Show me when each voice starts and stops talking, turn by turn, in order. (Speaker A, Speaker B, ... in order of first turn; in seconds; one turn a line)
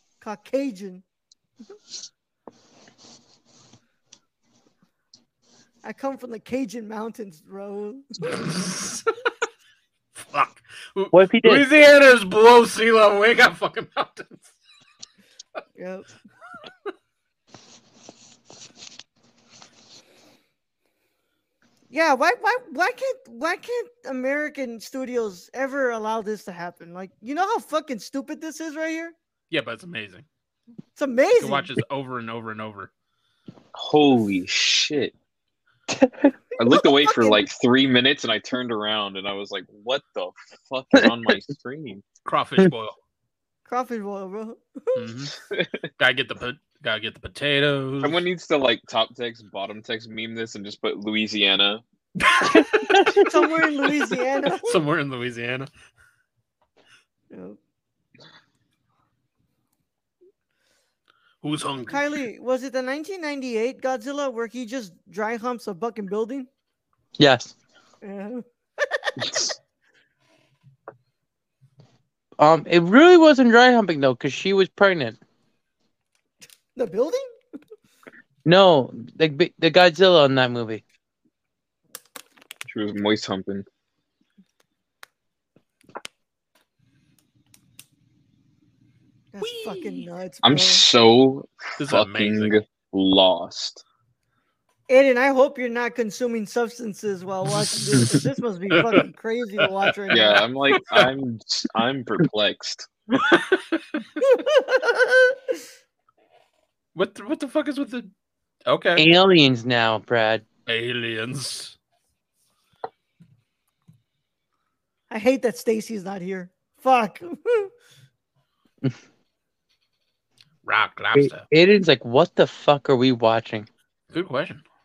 Speaker A: 0.2-1.0
Speaker A: 5.8-8.4
Speaker B: 8.2-9.1
Speaker B: 10.2-14.5
Speaker C: 11.1-11.6
Speaker A: 15.8-16.1
Speaker A: 21.9-29.1
Speaker B: 29.5-30.2
Speaker A: 31.0-31.7
Speaker B: 31.4-32.9
Speaker D: 33.7-35.1
Speaker C: 35.9-36.3
Speaker D: 36.6-42.0
Speaker A: 36.7-37.4
Speaker B: 42.2-43.0
Speaker A: 43.6-45.1
Speaker B: 44.9-45.3
Speaker D: 45.5-45.9
Speaker B: 46.0-48.2
Speaker D: 48.0-51.8
Speaker B: 52.2-53.2
Speaker C: 52.5-53.2
Speaker A: 53.2-54.8
Speaker B: 54.5-55.7
Speaker A: 57.3-57.6
Speaker B: 61.4-62.1
Speaker A: 61.9-66.5
Speaker C: 67.2-67.5
Speaker A: 68.0-69.1
Speaker D: 69.2-69.5
Speaker C: 72.4-75.2
Speaker A: 76.8-77.2
Speaker C: 78.4-80.8
Speaker D: 82.7-83.6
Speaker A: 89.3-90.8
Speaker B: 89.4-90.0
Speaker D: 90.4-93.8
Speaker B: 91.8-92.5
Speaker A: 94.9-100.4
Speaker B: 100.1-101.1
Speaker D: 100.1-102.9
Speaker B: 103.1-104.0
Speaker A: 104.2-105.6
Speaker B: 106.9-108.1
Speaker B: 108.7-109.0
Speaker C: 109.0-110.4
Speaker B: 110.7-111.8
Speaker A: 115.1-117.7
Speaker B: 120.6-121.4
Speaker C: 121.1-123.7
Speaker B: 124.1-124.6